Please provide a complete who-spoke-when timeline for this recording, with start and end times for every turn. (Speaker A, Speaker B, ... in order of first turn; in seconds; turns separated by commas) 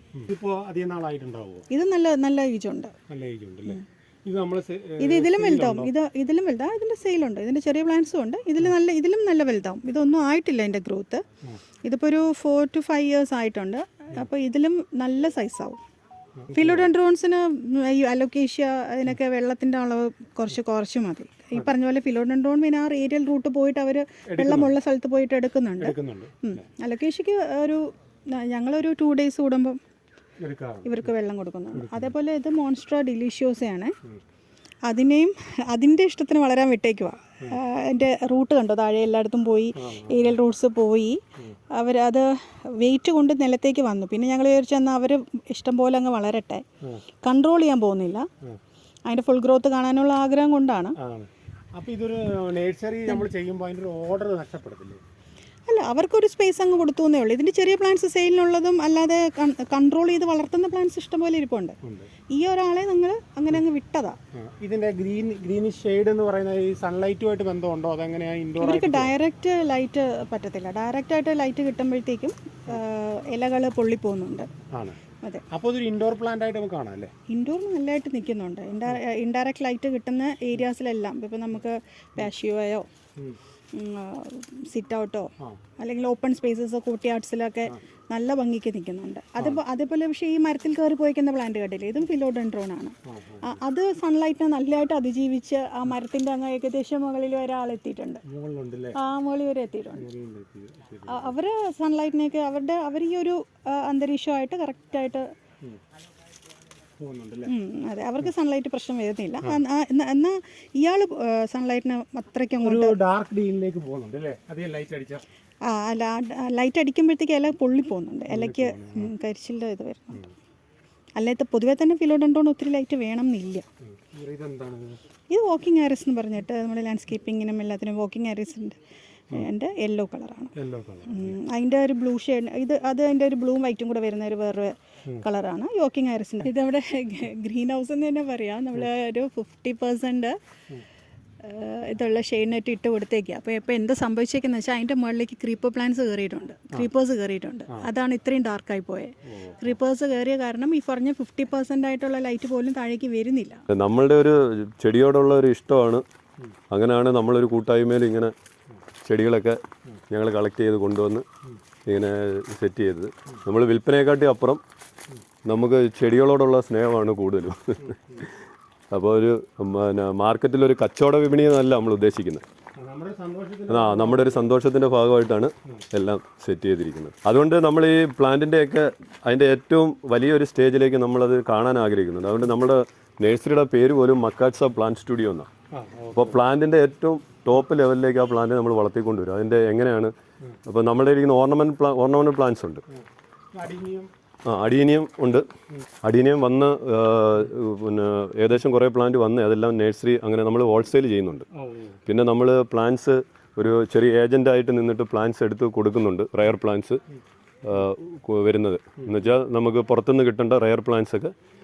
Speaker A: 0.1-1.6, Speaker B: 1.7-2.9, Speaker A: 3.1-5.9, Speaker B: 5.0-11.2, Speaker B: 11.8-15.8, Speaker A: 16.4-16.9, Speaker B: 16.5-29.8, Speaker A: 24.3-24.8, Speaker A: 25.8-26.6, Speaker A: 30.4-31.1, Speaker B: 30.8-33.9, Speaker A: 31.7-32.1, Speaker B: 34.9-41.2, Speaker A: 39.8-40.4, Speaker B: 41.7-46.6, Speaker B: 47.2-48.3, Speaker B: 49.1-51.0, Speaker A: 51.0-55.0, Speaker B: 55.7-61.8, Speaker A: 61.8-62.1, Speaker B: 62.3-64.2, Speaker A: 64.3-69.1, Speaker B: 68.6-74.6, Speaker A: 74.7-75.0, Speaker B: 75.1-75.4, Speaker A: 75.5-77.1, Speaker B: 77.3-82.9, Speaker B: 83.7-98.2, Speaker A: 89.4-89.6, Speaker A: 93.0-93.6, Speaker A: 98.2-99.0, Speaker B: 98.9-100.0, Speaker A: 100.0-101.3, Speaker B: 101.1-105.2, Speaker A: 107.0-107.5, Speaker B: 107.5-113.0, Speaker A: 112.6-115.2, Speaker B: 115.7-120.2, Speaker A: 118.3-119.1, Speaker B: 121.2-123.7, Speaker A: 123.9-125.0, Speaker B: 125.3-128.8, Speaker B: 129.3-130.5, Speaker A: 130.6-131.4, Speaker B: 131.1-140.3, Speaker B: 141.4-153.6, Speaker A: 149.3-149.6, Speaker C: 153.7-156.0, Speaker C: 156.7-158.3, Speaker C: 159.0-161.2, Speaker C: 161.8-164.6, Speaker C: 165.4-168.3, Speaker A: 167.8-168.2, Speaker C: 168.9-172.4, Speaker A: 172.8-174.4, Speaker C: 173.7-185.5, Speaker A: 185.7-186.4, Speaker C: 186.1-190.1, Speaker C: 190.7-192.8, Speaker A: 192.9-194.1, Speaker C: 194.4-195.4, Speaker C: 196.0-201.4, Speaker A: 201.5-202.0, Speaker C: 202.1-207.0, Speaker C: 207.6-211.3, Speaker A: 209.0-209.3